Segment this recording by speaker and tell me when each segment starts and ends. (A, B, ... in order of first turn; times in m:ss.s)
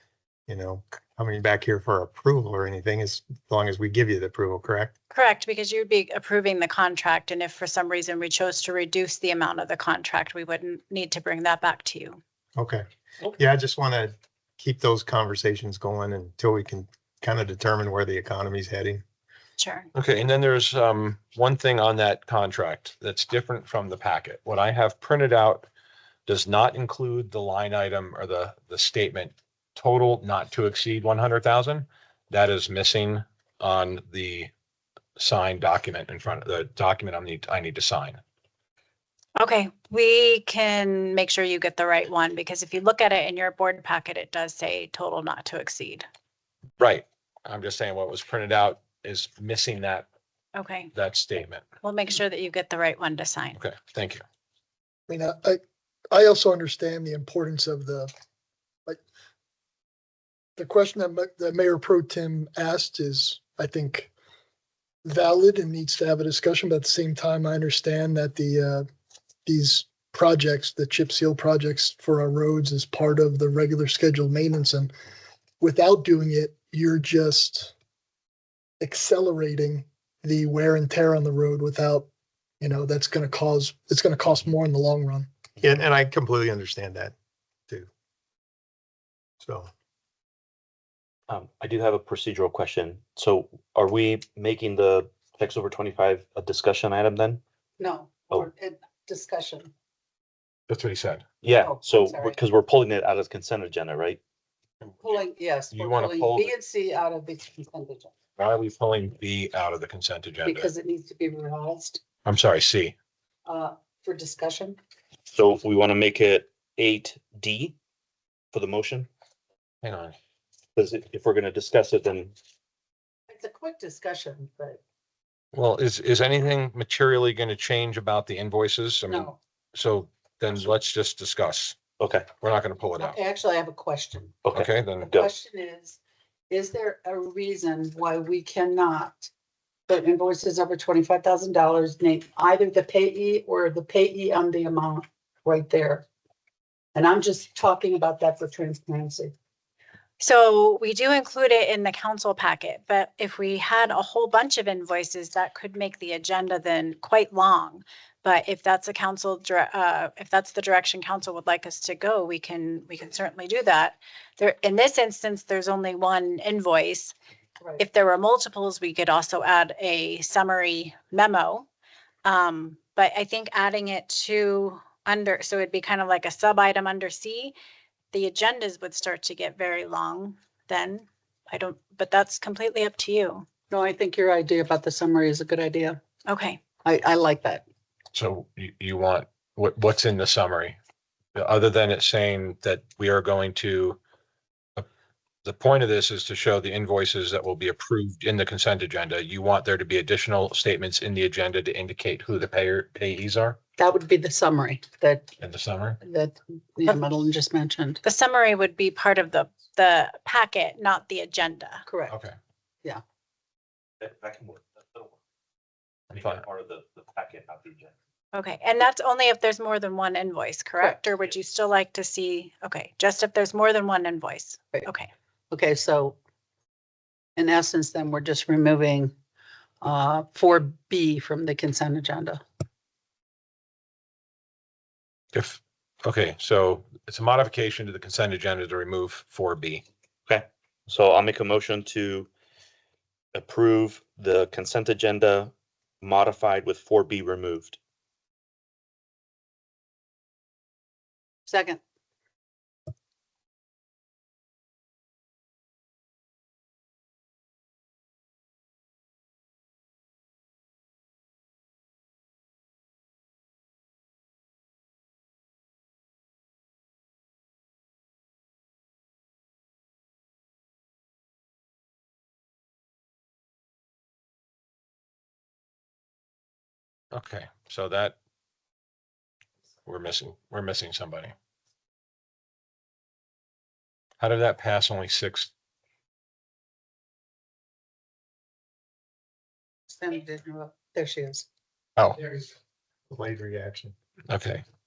0:00.5-0:04.9 A
0:05.1-0:12.2 B
0:12.6-0:19.0 A
0:19.6-0:19.9 B
0:20.0-0:25.7 C
0:26.3-0:34.5 C
0:35.2-0:38.2 C
0:39.4-0:46.0 B
0:46.8-0:50.1 C
0:50.5-0:50.9 B
0:50.9-0:51.6 C
0:51.8-0:53.6 B
0:53.6-0:54.2 C
0:55.1-0:55.6 D
0:56.1-0:58.1 D
1:00.6-1:04.1 D
1:05.0-1:08.9 D
1:09.5-1:14.9 D
1:15.6-1:17.7 D
1:18.8-1:22.1 D
1:22.6-1:25.3 D
1:25.6-1:27.1 A
1:29.4-1:29.7 A
1:31.3-1:37.4 E
1:37.8-1:39.7 F
1:40.7-1:41.2 C
1:41.4-1:44.2 E
1:41.6-1:42.4 F
1:45.0-1:48.1 F
1:45.7-1:46.5 C
1:48.4-1:50.7 C
1:50.4-1:52.0 F
1:52.2-1:53.0 C
1:53.5-1:54.8 F
1:55.3-1:57.8 E
1:58.5-1:59.1 E
1:59.8-2:00.2 C
2:00.8-2:02.4 E
2:03.3-2:04.8 F
2:05.5-2:11.8 C
2:09.1-2:09.4 F
2:12.0-2:12.3 E
2:12.3-2:13.2 C
2:13.0-2:14.5 F
2:14.5-2:15.3 E
2:14.5-2:15.2 C
2:15.1-2:16.0 F
2:16.5-2:19.3 F
2:19.9-2:26.1 F
2:27.0-2:29.3 F
2:30.2-2:47.1 B
2:47.8-2:51.7 B
2:52.2-2:57.5 B
2:58.1-3:03.5 B
3:03.7-3:06.0 F
3:06.3-3:06.6 B
3:06.8-3:07.6 F
3:08.1-3:10.8 C
3:11.4-3:14.0 C
3:15.4-3:23.6 C
3:23.8-3:25.3 F
3:25.4-3:26.0 C
3:26.0-3:28.0 F
3:28.0-3:31.8 B
3:31.8-3:32.2 F
3:32.1-3:32.4 C
3:34.0-3:35.2 E
3:36.1-3:37.9 E
3:36.1-3:36.4 C
3:38.3-3:45.1 B
3:40.8-3:41.1 F
3:45.5-3:46.2 F
3:47.4-3:49.1 F
3:49.8-3:52.4 F
3:55.3-3:59.8 C
4:00.3-4:02.3 E
4:03.3-4:07.8 E
4:11.5-4:11.8 F
4:37.1-4:38.2 C
4:39.8-4:41.3 C
4:44.2-4:45.5 C
4:49.9-4:51.5 F
4:52.0-4:52.3 C
4:53.1-4:53.9 A
4:54.3-4:54.6 C